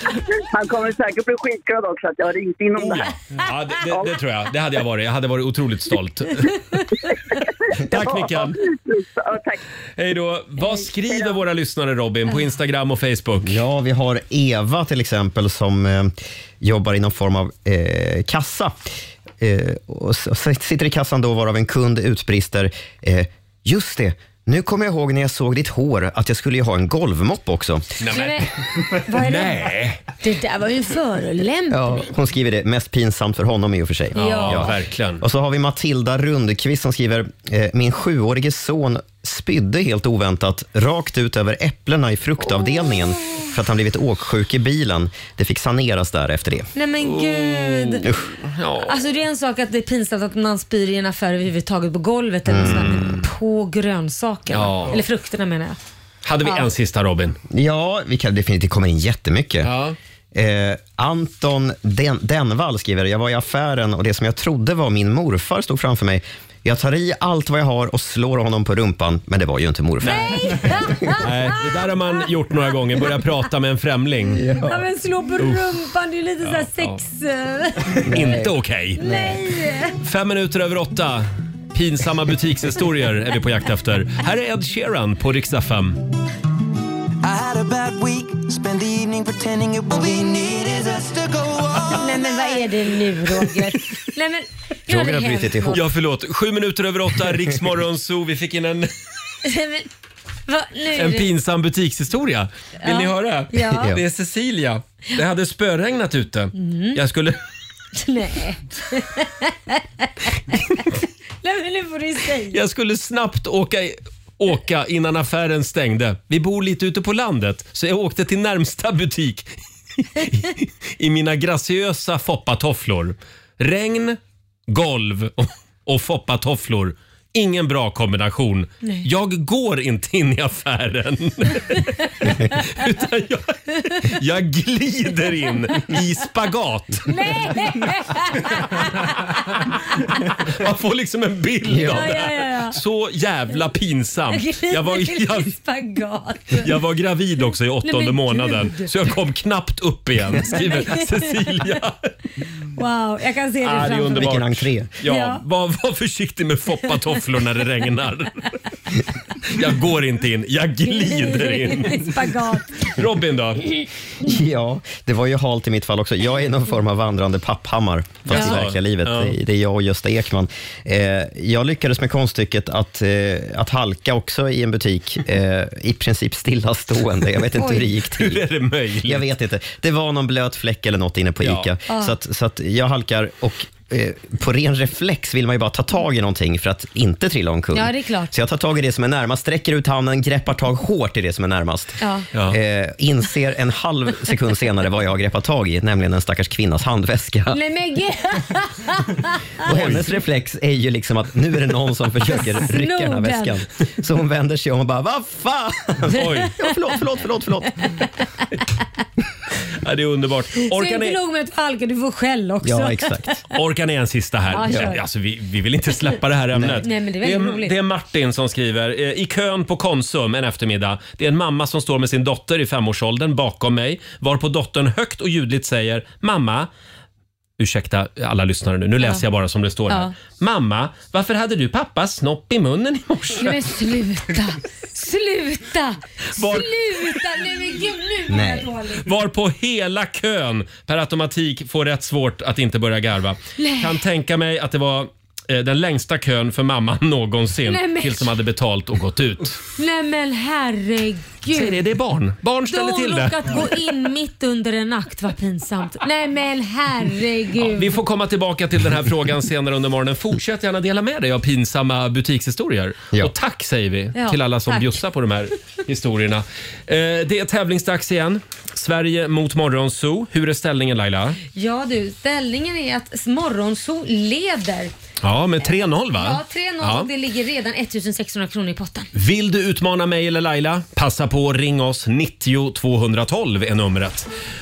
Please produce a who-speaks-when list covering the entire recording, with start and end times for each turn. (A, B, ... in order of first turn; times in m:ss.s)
0:00.4-0:03.1 A
0:02.8-0:06.6 B
0:07.8-0:08.6 B
0:07.9-0:09.6 A
0:10.0-0:13.6 B
0:10.6-0:11.4 A
0:13.4-0:18.7 C
0:19.4-0:27.9 C
0:28.0-0:30.0 B
0:28.1-0:32.0 D
0:31.7-0:46.7 C
0:34.1-0:34.7 D
0:34.1-0:35.2 B
0:46.7-0:48.1 D
0:47.0-0:49.0 B
0:48.8-0:55.8 D
0:52.5-0:53.2 C
0:52.6-0:53.2 B
0:54.5-0:55.0 B
0:56.2-0:57.4 B
0:57.5-0:59.7 C
0:59.6-1:00.0 B
1:00.3-1:11.1 C
1:10.0-1:10.4 B
1:10.0-1:11.6 D
1:11.2-1:14.4 B
1:14.3-1:14.8 C
1:14.6-1:18.1 D
1:15.4-1:15.6 B
1:16.4-1:17.0 B
1:17.9-1:19.0 B
1:18.0-1:19.4 C
1:19.0-1:20.0 D
1:20.0-1:26.0 B
1:27.2-1:32.4 E
1:31.9-1:35.8 D
1:34.9-1:35.8 C
1:35.7-1:38.9 B
1:39.4-1:39.9 D
1:40.5-1:41.3 D
1:41.0-1:47.4 B
1:42.8-1:44.0 D
1:46.6-1:47.0 D
1:48.0-1:50.8 D
1:51.4-1:52.6 D
1:52.5-2:17.2 B
2:17.0-2:20.3 D
2:20.4-2:25.5 B
2:21.7-2:22.2 C
2:21.8-2:22.8 D
2:24.3-2:26.7 D
2:26.5-2:32.1 B
2:27.8-2:28.9 D
2:30.5-2:31.5 D
2:32.8-2:34.3 D
2:33.6-2:38.5 B
2:34.1-2:34.9 C
2:35.0-2:35.4 D
2:39.4-2:42.3 B
2:40.9-2:42.9 D
2:42.8-2:43.7 B
2:44.2-2:58.4 C
2:48.3-2:49.4 B
2:48.3-2:48.6 D
2:57.6-2:57.9 D
2:58.1-2:59.3 B
2:59.0-3:17.6 C
3:01.4-3:01.7 B
3:01.9-3:02.2 D
3:07.7-3:08.3 D
3:12.0-3:12.3 D
3:17.5-3:19.4 D
3:19.6-3:27.9 C
3:19.6-3:20.1 B
3:22.3-3:23.6 D
3:26.1-3:26.6 B
3:29.8-3:31.2 B
3:30.6-3:33.4 D
3:32.6-3:33.4 C
3:33.5-3:46.7 B
3:34.5-3:35.0 D
3:34.7-3:34.9 C
3:36.5-3:36.8 C
3:36.8-3:37.7 D
3:47.6-3:53.7 B
3:53.4-3:59.1 D
3:56.3-3:57.2 B
3:58.3-3:58.7 C
3:59.0-4:09.6 B
4:03.6-4:04.0 D
4:07.6-4:08.3 D
4:09.8-4:11.8 D
4:11.5-4:13.6 B
4:12.7-4:18.0 D
4:17.6-4:31.4 B
4:24.1-4:25.0 D
4:31.5-4:34.9 D
4:35.2-4:37.1 B
4:35.6-4:39.1 D
4:39.1-4:44.3 B